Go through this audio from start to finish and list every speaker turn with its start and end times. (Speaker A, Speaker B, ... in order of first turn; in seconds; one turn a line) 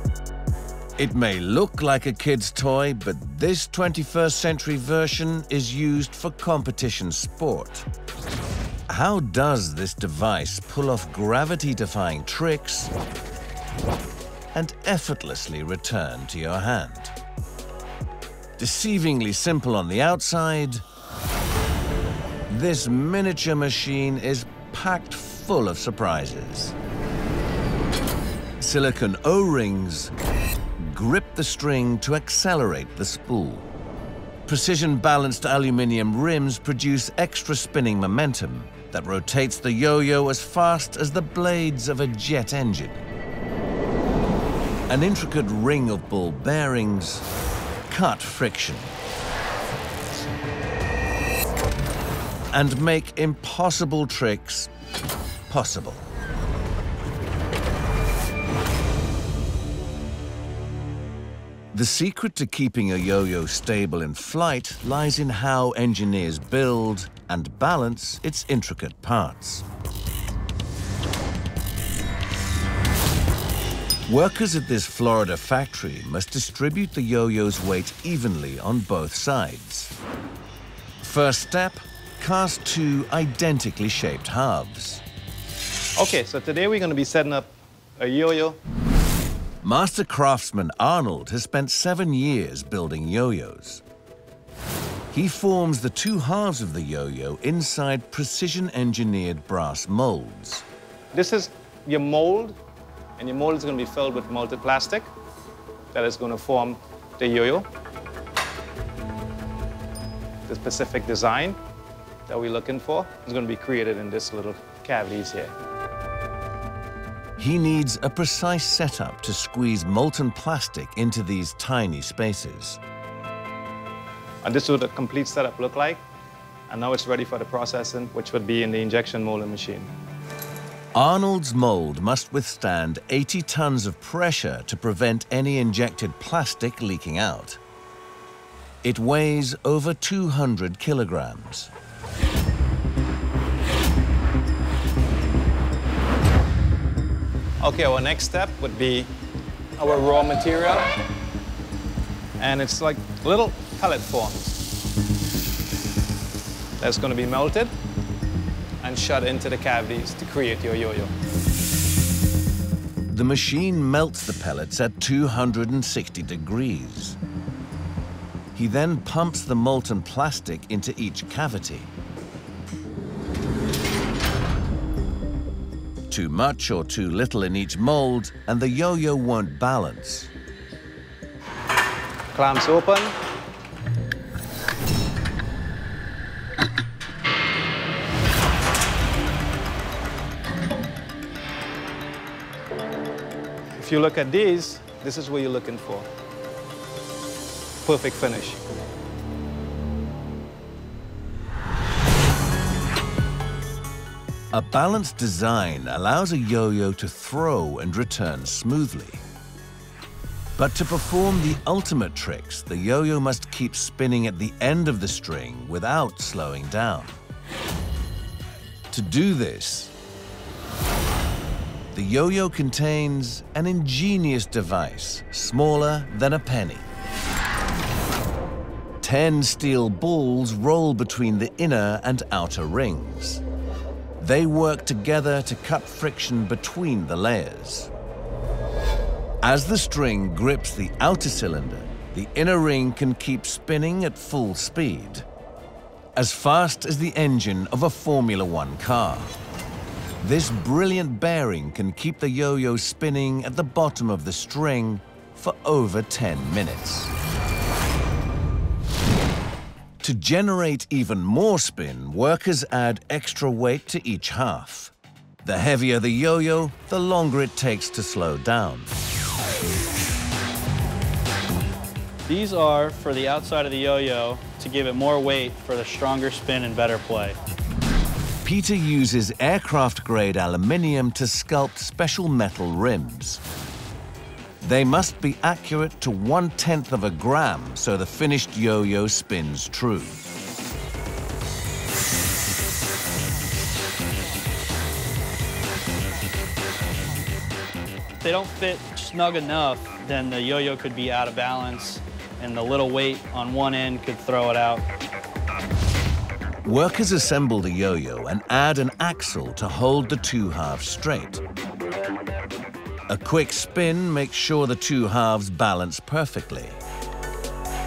Speaker A: 1.0-7.9
Speaker A: 8.9-12.9
Speaker A: 14.5-17.1
Speaker A: 18.6-20.8
Speaker A: 22.5-26.8
Speaker A: 28.6-30.1
Speaker A: 30.8-33.7
Speaker A: 34.5-43.1
Speaker A: 44.9-47.2
Speaker A: 47.9-48.9
Speaker A: 52.5-54.7
Speaker A: 55.5-56.1
Speaker A: 61.7-69.6
Speaker A: 74.1-80.0
Speaker A: 81.0-85.0
Speaker B: 86.0-88.6
Speaker A: 89.6-93.8
Speaker A: 95.1-100.7
Speaker B: 101.1-102.6
Speaker B: 103.2-105.1
Speaker B: 105.9-107.7
Speaker B: 110.5-111.6
Speaker B: 112.3-115.5
Speaker A: 117.4-122.8
Speaker B: 124.4-126.0
Speaker B: 126.7-129.9
Speaker A: 130.9-137.6
Speaker A: 138.8-141.7
Speaker B: 147.6-149.1
Speaker B: 149.8-150.9
Speaker B: 152.4-154.6
Speaker B: 156.8-157.7
Speaker B: 158.8-161.1
Speaker A: 163.1-167.2
Speaker A: 168.5-171.9
Speaker A: 176.1-180.3
Speaker B: 182.3-183.2
Speaker B: 193.7-196.1
Speaker B: 197.8-198.6
Speaker A: 204.5-209.2
Speaker A: 210.6-217.2
Speaker A: 218.9-219.9
Speaker A: 221.9-226.9
Speaker A: 229.0-233.4
Speaker A: 234.2-237.9
Speaker A: 239.4-245.3
Speaker A: 246.2-249.3
Speaker A: 250.2-257.1
Speaker A: 260.0-268.9
Speaker C: 272.2-277.4
Speaker A: 278.4-283.4
Speaker A: 284.6-290.2
Speaker C: 298.2-304.8
Speaker A: 306.6-311.4
Speaker A: 313.1-316.8